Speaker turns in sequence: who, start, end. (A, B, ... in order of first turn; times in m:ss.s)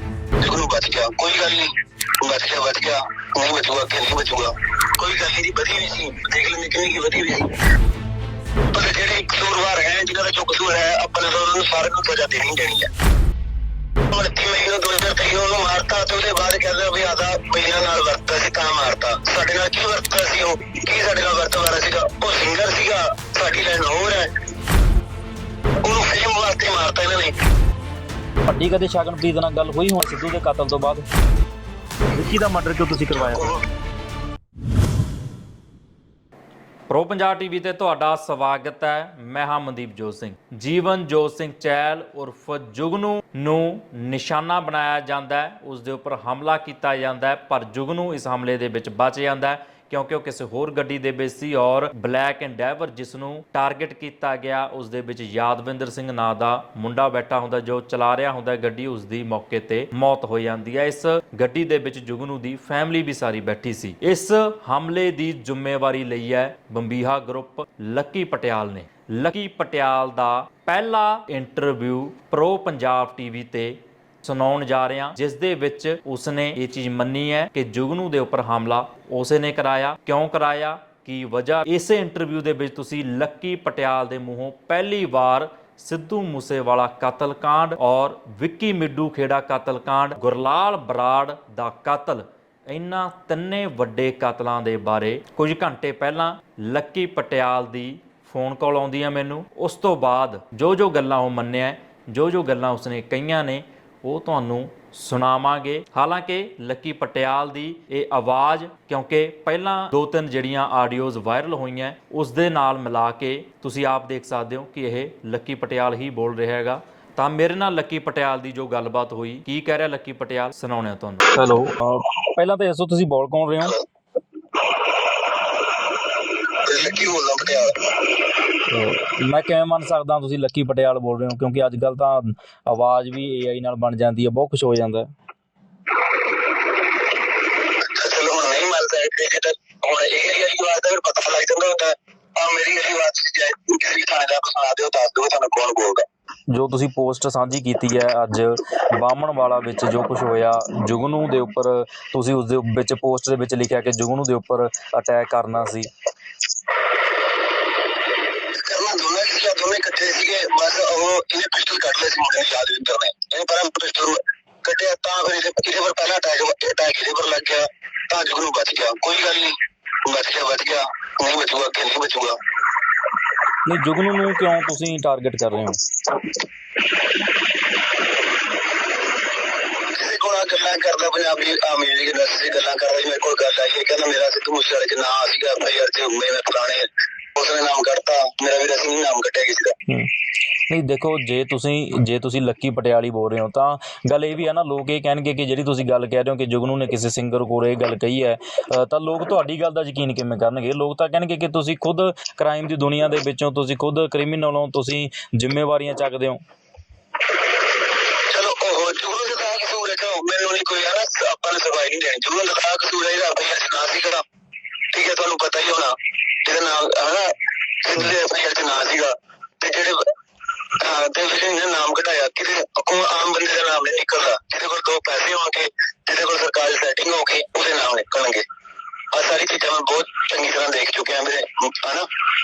0:00.4-0:07.5 A
0:08.7-0:12.9 A
0:14.1-0:24.3 A
0:25.8-0:27.3 A
0:28.5-0:31.1 B
0:32.1-0:33.5 B
0:33.2-0:33.6 A
0:36.9-2:01.2 C
2:01.3-2:03.8 B
2:06.6-2:07.8 A
2:08.7-2:15.1 B
2:18.0-2:26.0 A
2:26.5-2:35.9 B
2:38.6-2:52.4 A
2:53.7-2:55.8 B
2:59.9-3:09.8 A
3:10.7-3:26.4 B
3:28.3-3:34.2 A
3:34.9-3:40.1 A
3:40.8-3:48.4 A
3:49.1-3:52.1 A